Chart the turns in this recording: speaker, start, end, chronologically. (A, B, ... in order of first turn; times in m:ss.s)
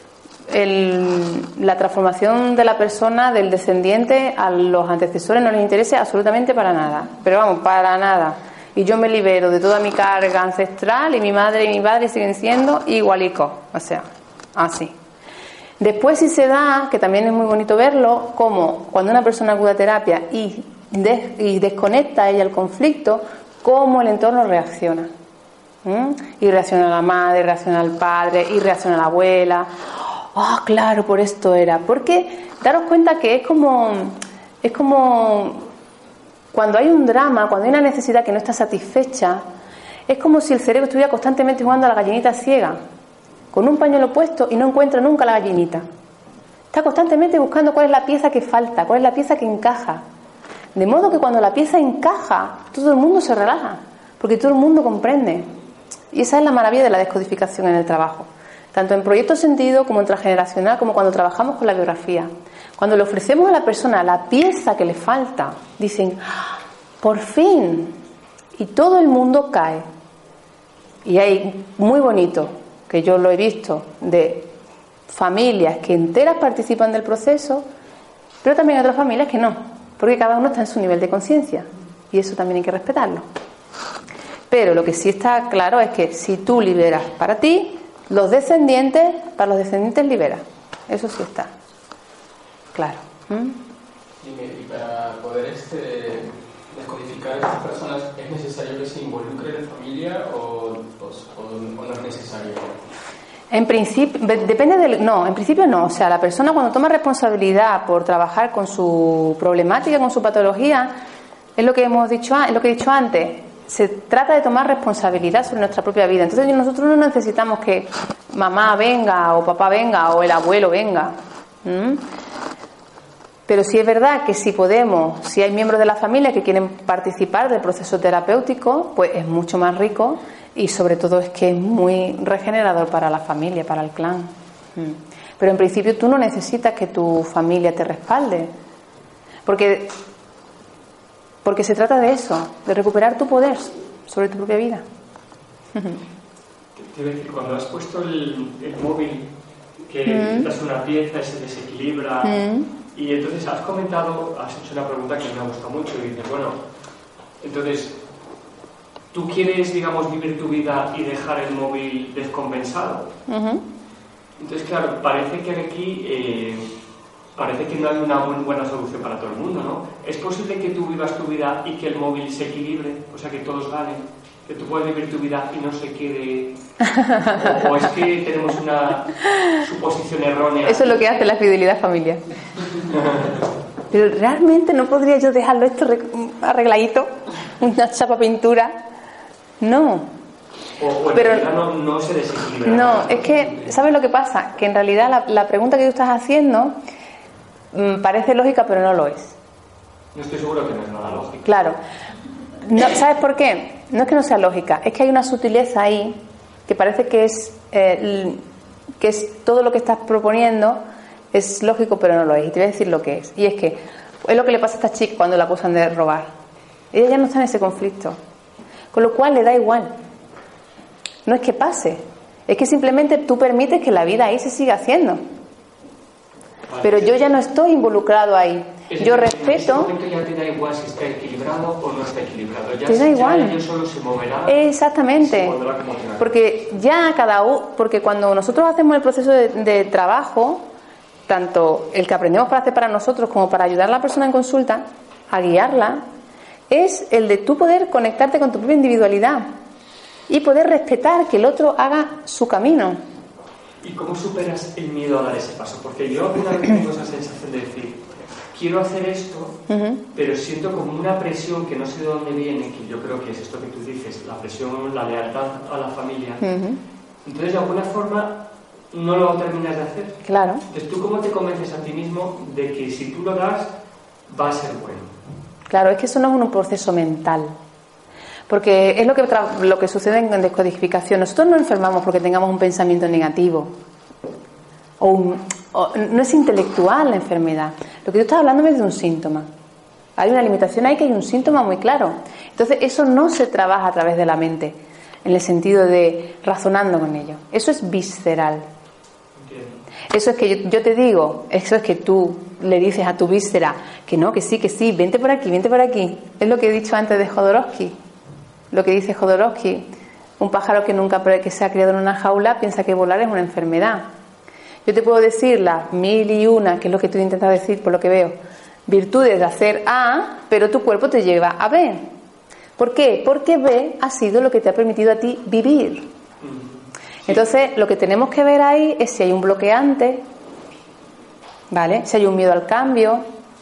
0:00.5-0:14.9 A
0:15.8-0:25.1 A
0:25.8-0:35.7 A
0:36.5-0:39.4 A
0:40.1-0:42.8 A
0:43.5-0:45.8 A
0:46.7-0:50.0 A
0:50.8-0:55.5 A
0:56.1-1:08.0 A
1:08.6-1:09.9 A
1:11.0-1:14.5 A
1:15.1-1:17.7 A
1:18.4-1:23.3 A
1:24.5-1:31.5 A
1:32.7-1:33.6 A
1:34.2-1:42.8 B
1:43.5-1:51.0 A
1:51.6-2:02.0 A
2:03.5-2:18.5 A
2:19.5-2:20.0 A
2:21.4-2:24.8 A
2:25.8-2:26.0 A
2:26.8-2:29.3 C
2:29.8-2:36.6 C
2:30.1-2:30.5 A
2:32.2-2:32.7 A
2:37.4-2:38.0 C
2:39.1-2:43.1 C
2:43.3-2:43.6 A
2:44.4-2:46.7 C
2:47.4-3:01.0 C
2:57.0-2:57.3 A
3:00.6-3:02.2 A
3:02.8-3:03.4 C
3:03.9-3:08.8 A
3:09.6-3:10.1 A
3:10.8-3:13.7 C
3:11.1-3:11.5 A
3:12.6-3:16.8 A
3:17.7-3:19.4 A
3:20.1-3:21.5 C
3:21.4-3:21.8 A
3:22.6-3:28.4 A
3:29.0-3:30.8 A
3:31.3-3:36.3 A
3:36.9-3:38.2 A
3:38.9-3:39.9 A
3:41.3-3:45.2 A
3:46.7-3:47.2 C
3:46.8-3:49.9 A
3:48.9-3:56.3 C
3:52.9-3:53.6 A
3:54.5-3:55.6 A
3:56.2-4:00.6 A
4:01.3-4:06.0 A
4:06.7-4:09.5 A
4:10.3-4:13.0 A
4:13.8-4:19.6 C
4:19.7-4:20.0 A
4:20.1-4:26.5 C
4:26.4-4:26.8 A
4:27.2-4:33.8 C
4:30.2-4:30.6 A
4:34.3-4:35.2 C
4:35.7-4:37.6 A
4:38.5-4:43.8 A
4:45.0-4:49.5 A
4:50.2-4:58.7 A
4:59.4-4:59.8 C
5:00.1-5:08.0 A
5:08.7-5:09.9 A
5:10.4-5:14.1 A
5:14.8-5:22.1 A
5:22.8-5:26.1 A
5:26.4-5:27.5 C
5:27.3-5:30.2 A
5:31.7-5:33.2 A